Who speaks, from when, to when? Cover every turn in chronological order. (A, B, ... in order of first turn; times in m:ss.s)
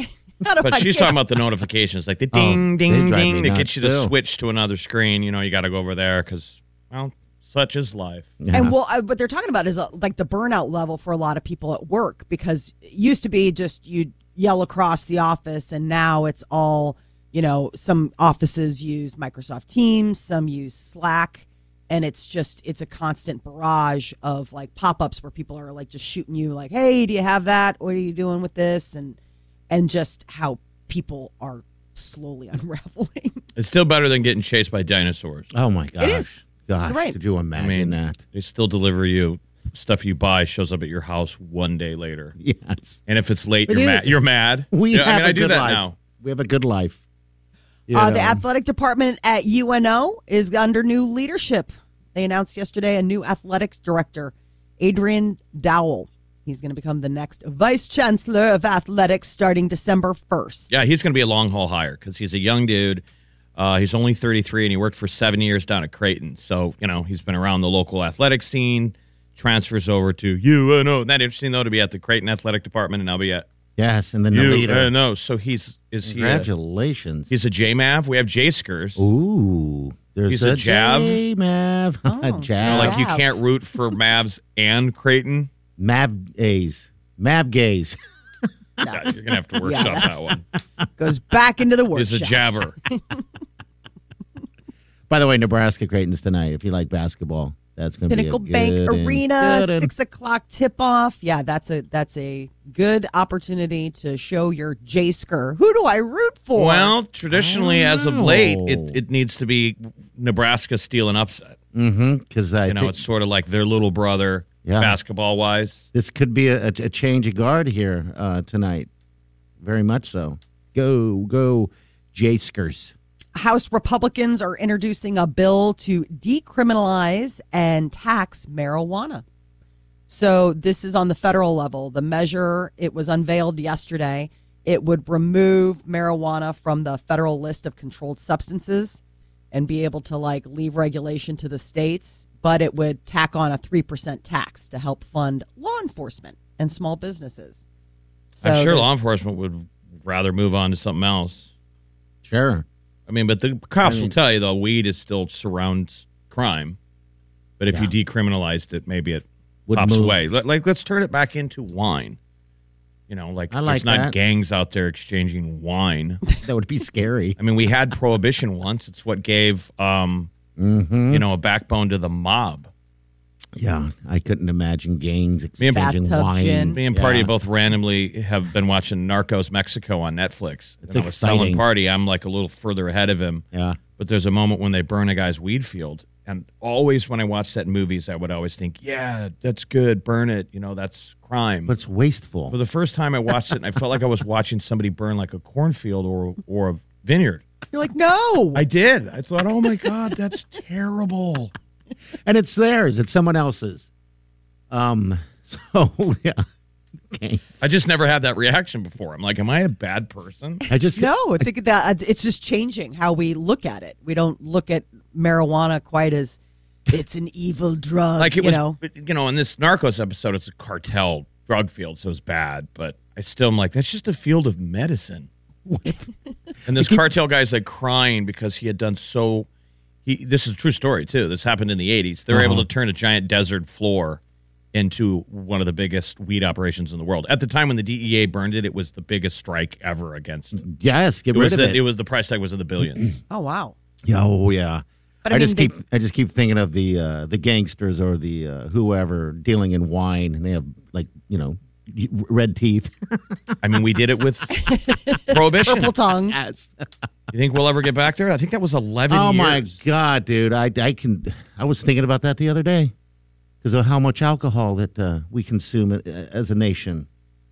0:00.4-0:01.2 A
0:00.6-0:08.3 B
0:02.3-0:04.1 C
0:08.4-0:08.7 C
0:08.5-0:29.2 A
0:29.7-0:33.4 A
0:33.6-0:35.5 B
0:35.5-0:38.2 C
0:36.0-0:37.2 A
0:37.6-0:42.3 B
0:42.4-0:43.0 C
0:43.1-0:46.0 B
0:43.7-0:44.2 C
0:44.7-0:47.0 C
0:47.9-0:48.4 C
0:47.9-1:00.7 A
1:00.7-1:03.0 B
1:03.6-1:13.4 B
1:13.8-1:14.9 C
1:14.3-1:16.5 B
1:16.0-1:17.3 C
1:17.3-1:19.1 B
1:19.0-1:23.0 C
1:20.3-1:21.2 B
1:22.1-1:23.3 A
1:22.6-1:25.5 B
1:25.8-1:28.0 C
1:28.8-1:29.1 A
1:28.9-1:30.4 B
1:29.6-1:30.3 A
1:31.0-1:33.0 A
1:31.9-1:32.8 B
1:35.1-1:39.9 C
1:38.1-1:46.9 A
1:46.6-1:51.6 B
1:47.3-1:49.0 C
1:51.7-1:53.0 C
1:52.7-1:55.9 B
1:54.6-1:55.0 C
1:55.9-1:58.9 C
1:59.6-2:02.9 C
2:03.4-2:09.2 A
2:10.1-2:19.0 A
2:19.5-2:27.6 A
2:28.4-2:28.9 A
2:28.4-2:31.5 B
2:32.2-2:32.7 C
2:33.1-2:36.8 B
2:33.8-2:34.1 C
2:37.6-2:42.2 B
2:39.7-2:40.3 C
2:43.1-2:46.2 B
2:43.5-2:44.1 C
2:46.4-2:47.4 C
2:47.4-2:50.3 B
2:50.6-2:51.2 C
2:51.1-2:52.7 B
2:53.6-2:57.3 C
2:55.7-2:56.8 A
2:56.8-3:03.4 B
3:00.9-3:01.6 C
3:03.5-3:03.8 C
3:04.0-3:11.7 B
3:11.7-3:12.6 C
3:12.5-3:17.4 B
3:17.7-3:18.6 A
3:18.6-3:21.5 B
3:22.2-3:23.9 C
3:24.7-3:26.4 C
3:27.1-3:27.7 C
3:27.6-3:30.6 B
3:30.7-3:31.1 C
3:30.9-3:38.8 A
3:38.2-3:45.3 B
3:45.7-3:46.0 C
3:46.7-3:49.5 B
3:46.8-3:47.0 C
3:50.1-3:54.2 B
3:52.3-3:52.7 C
3:54.7-4:00.6 B
4:00.6-4:01.8 C
4:01.3-4:03.1 B
4:03.3-4:03.8 A
4:04.0-4:13.6 C
4:05.2-4:05.7 A
4:13.6-4:14.5 B
4:14.5-4:16.5 A
4:15.3-4:15.9 B
4:16.3-4:16.9 C
4:17.3-4:19.8 B
4:19.1-4:22.9 C
4:23.6-4:27.1 C